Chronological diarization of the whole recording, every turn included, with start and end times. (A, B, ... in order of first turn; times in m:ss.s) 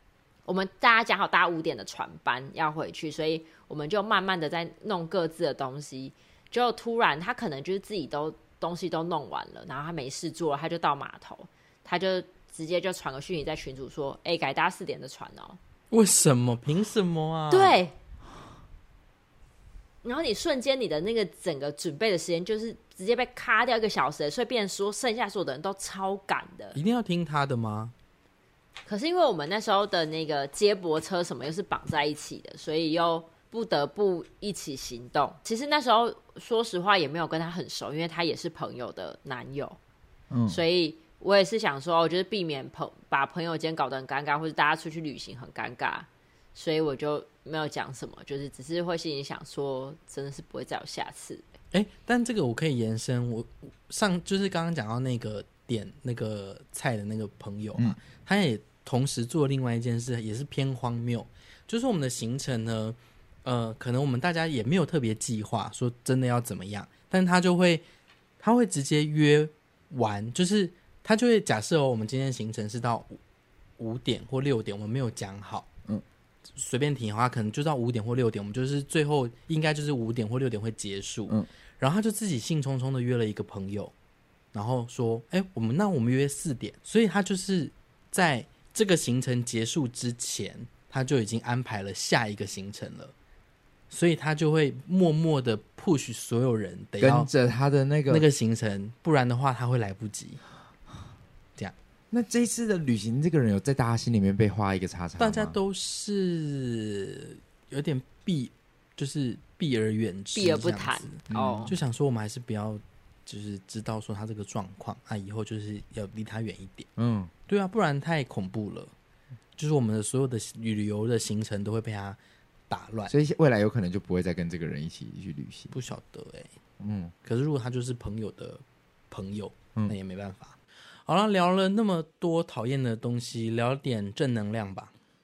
0:00.4-0:15.6 A
0:15.9-0:17.8 B
0:17.5-0:17.9 A
0:20.0-0:26.8 A
0:26.7-0:27.9 B
0:28.8-0:39.8 A
0:40.3-0:40.6 C
0:40.5-0:51.4 A
0:51.7-1:07.8 B
1:08.4-1:13.2 B
1:13.8-1:15.7 B
1:16.5-1:23.9 B
1:24.5-1:33.1 B
1:33.9-1:37.3 B
1:37.0-1:38.2 C
1:38.1-1:40.4 B
1:42.1-1:45.6 C
1:45.2-1:56.9 B
1:50.3-1:51.7 A
1:51.3-1:51.7 C
1:57.0-1:57.3 C
1:57.5-1:58.9 B
1:59.6-2:03.1 B
2:03.1-2:05.7 C
2:05.7-2:06.5 B
2:06.8-2:07.1 C
2:07.2-2:14.9 B